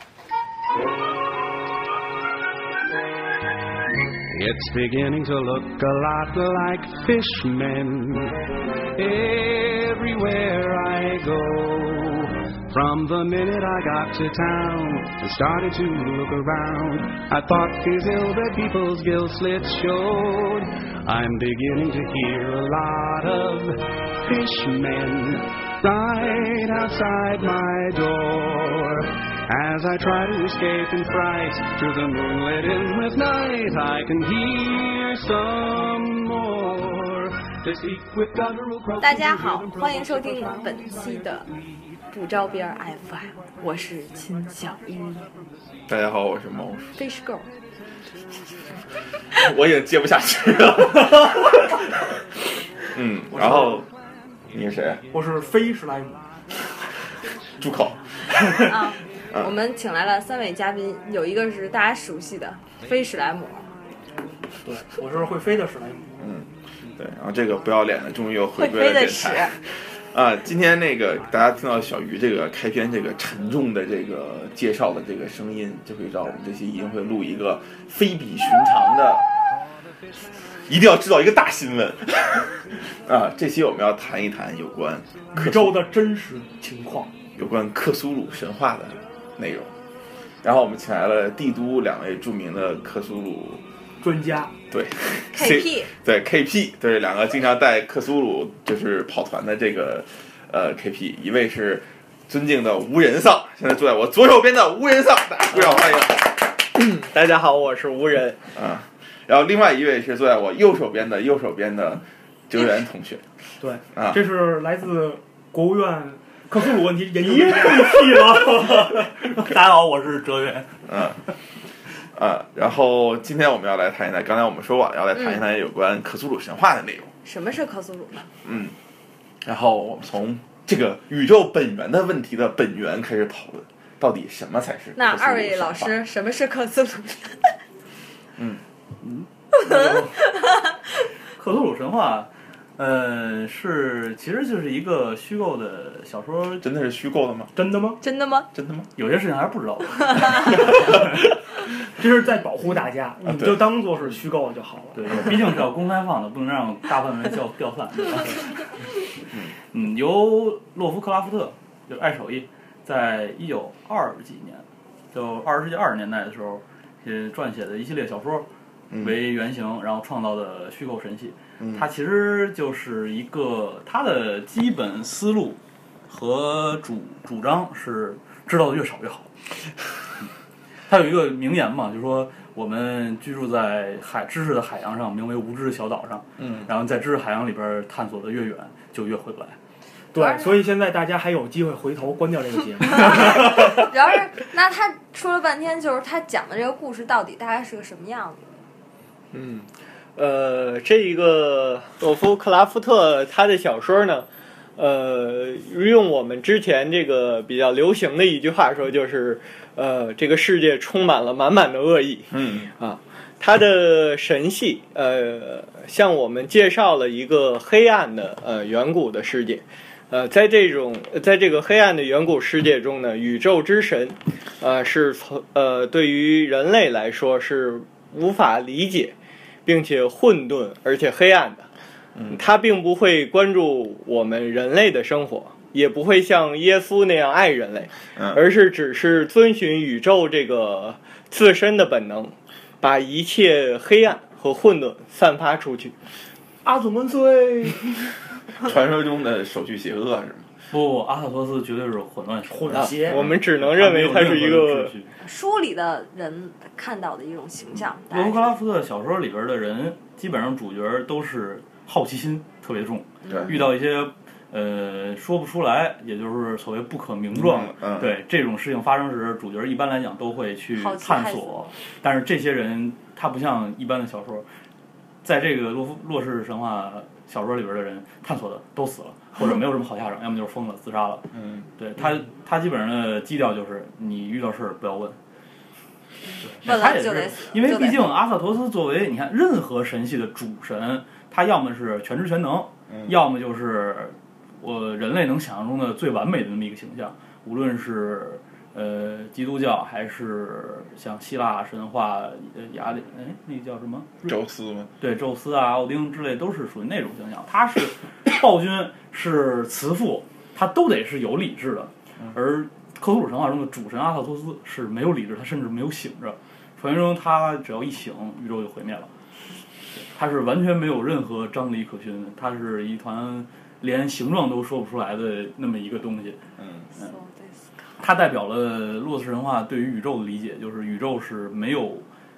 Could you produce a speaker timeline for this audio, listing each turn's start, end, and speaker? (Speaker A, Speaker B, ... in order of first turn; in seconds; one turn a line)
Speaker A: 4.3-8.4
Speaker A: 8.9-40.7
Speaker B: 39.0-41.4
Speaker B: 42.1-45.2
Speaker C: 45.9-47.0
Speaker B: 47.0-47.5
Speaker C: 49.3-51.8
Speaker C: 52.9-53.9
Speaker D: 53.3-53.9
Speaker C: 54.5-55.0
Speaker D: 55.1-56.3
Speaker C: 57.6-58.6
Speaker B: 58.6-63.7
Speaker D: 64.6-66.2
Speaker C: 66.2-79.2
Speaker B: 68.5-69.5
Speaker C: 80.7-85.8
Speaker D: 85.3-87.1
Speaker C: 87.3-89.7
Speaker C: 90.4-93.6
Speaker D: 94.0-94.5
Speaker C: 94.7-106.3
Speaker B: 95.3-95.9
Speaker E: 106.7-108.4
Speaker C: 108.5-113.2
Speaker D: 113.6-118.9
Speaker C: 113.9-114.2
Speaker F: 117.2-120.8
Speaker C: 120.9-121.2
Speaker C: 122.1-127.1
Speaker B: 125.1-125.4
Speaker B: 127.2-128.3
Speaker C: 128.4-128.7
Speaker C: 129.4-135.9
Speaker B: 134.9-137.5
Speaker C: 138.4-138.6
Speaker F: 139.0-140.1
Speaker B: 139.6-140.8
Speaker F: 141.3-146.6
Speaker C: 146.6-147.5
Speaker D: 147.6-148.0
Speaker B: 148.0-148.5
Speaker C: 148.5-148.9
Speaker F: 149.0-151.0
Speaker B: 150.1-150.6
Speaker C: 150.7-151.0
Speaker D: 151.9-155.4
Speaker C: 153.2-153.7
Speaker F: 154.9-158.7
Speaker F: 159.7-168.5
Speaker C: 168.9-169.2
Speaker F: 169.0-179.3
Speaker C: 171.6-171.9
Speaker F: 180.9-189.6
Speaker C: 186.4-186.7
Speaker D: 190.1-193.8
Speaker B: 190.1-190.7
Speaker B: 192.9-198.6
Speaker E: 199.3-229.1
Speaker C: 212.3-212.7
Speaker E: 229.7-231.7
Speaker C: 232.1-232.4
Speaker E: 232.3-245.9
Speaker C: 238.2-238.4
Speaker D: 246.6-248.1
Speaker C: 248.6-250.5
Speaker F: 250.7-255.1
Speaker D: 252.5-253.2
Speaker E: 252.7-254.9
Speaker B: 255.2-258.5
Speaker F: 257.7-274.5
Speaker B: 263.2-263.6
Speaker C: 263.3-263.6
Speaker C: 267.3-268.1
Speaker B: 270.7-271.7
Speaker F: 275.2-285.2
Speaker C: 281.3-281.6
Speaker F: 286.5-304.4
Speaker B: 286.6-288.1
Speaker C: 292.9-293.1
Speaker C: 304.2-304.9
Speaker F: 305.0-319.1
Speaker F: 320.1-326.4
Speaker C: 326.6-326.9
Speaker B: 327.0-328.0
Speaker F: 328.0-332.1